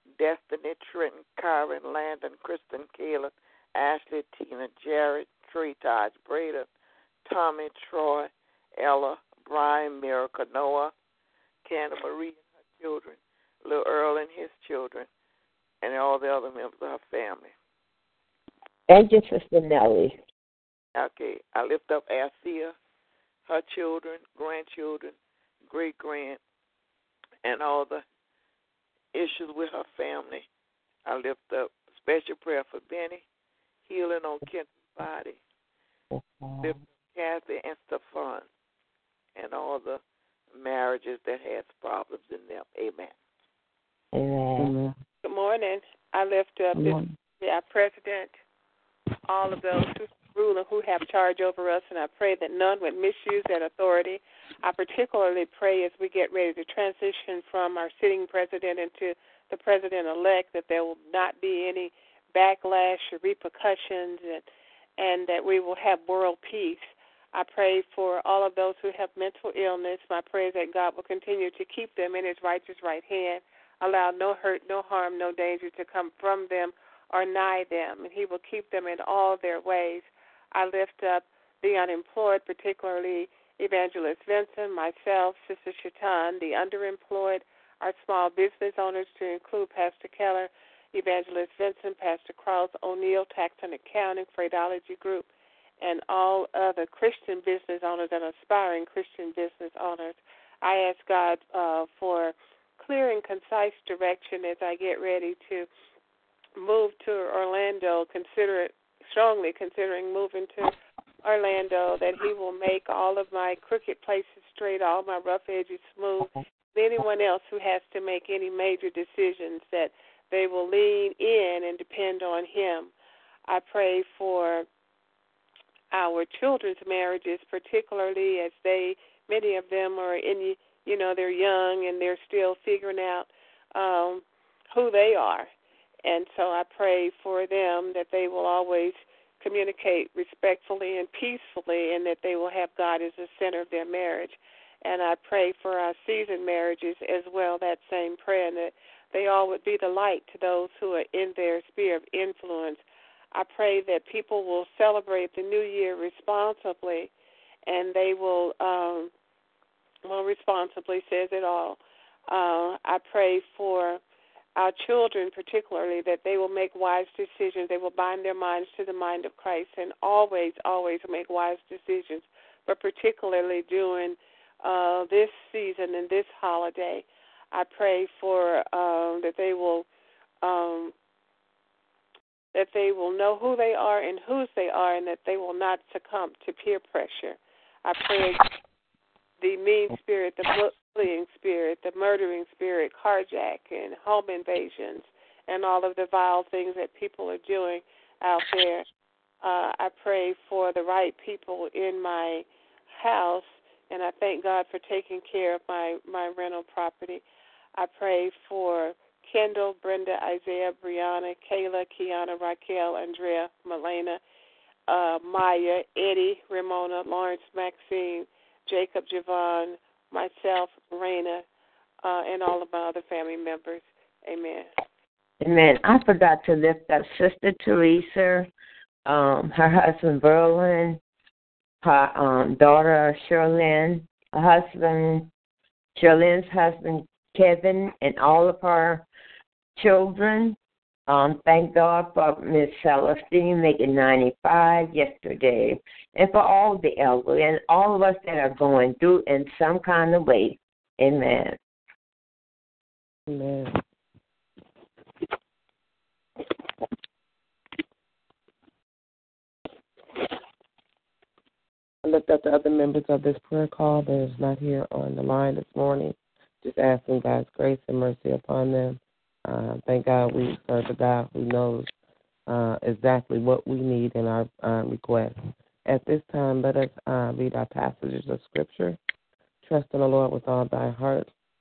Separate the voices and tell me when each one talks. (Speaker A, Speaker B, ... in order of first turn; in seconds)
Speaker A: 0.2-6.7, 7.2-10.9, 11.6-15.1, 15.8-17.5, 20.9-22.7, 23.5-25.1, 25.7-26.4, 27.4-28.0, 29.1-30.4, 31.1-33.2, 33.9-35.4, 36.6-38.5, 39.4-40.0, 40.5-43.1
Speaker B: 18.9-20.2, 36.1-36.7, 44.1-44.7, 225.4-228.5, 229.1-231.0, 231.8-235.3, 235.9-239.1, 239.8-240.6, 241.1-251.6
Speaker C: 44.6-45.0, 46.7-47.1, 253.3-253.8, 262.0-271.9, 272.5-279.0, 279.6-281.3
Speaker D: 45.2-48.4, 49.3-64.5, 65.0-95.3, 95.8-105.7, 106.6-110.7, 111.2-122.9, 123.5-124.7, 125.9-135.5, 136.0-152.8, 153.3-157.1, 157.7-159.1, 160.1-161.8, 162.3-164.0, 164.6-179.8, 180.4-180.9, 182.5-188.4, 189.4-198.8, 199.4-207.2, 207.8-214.2, 214.9-221.4, 222.0-224.7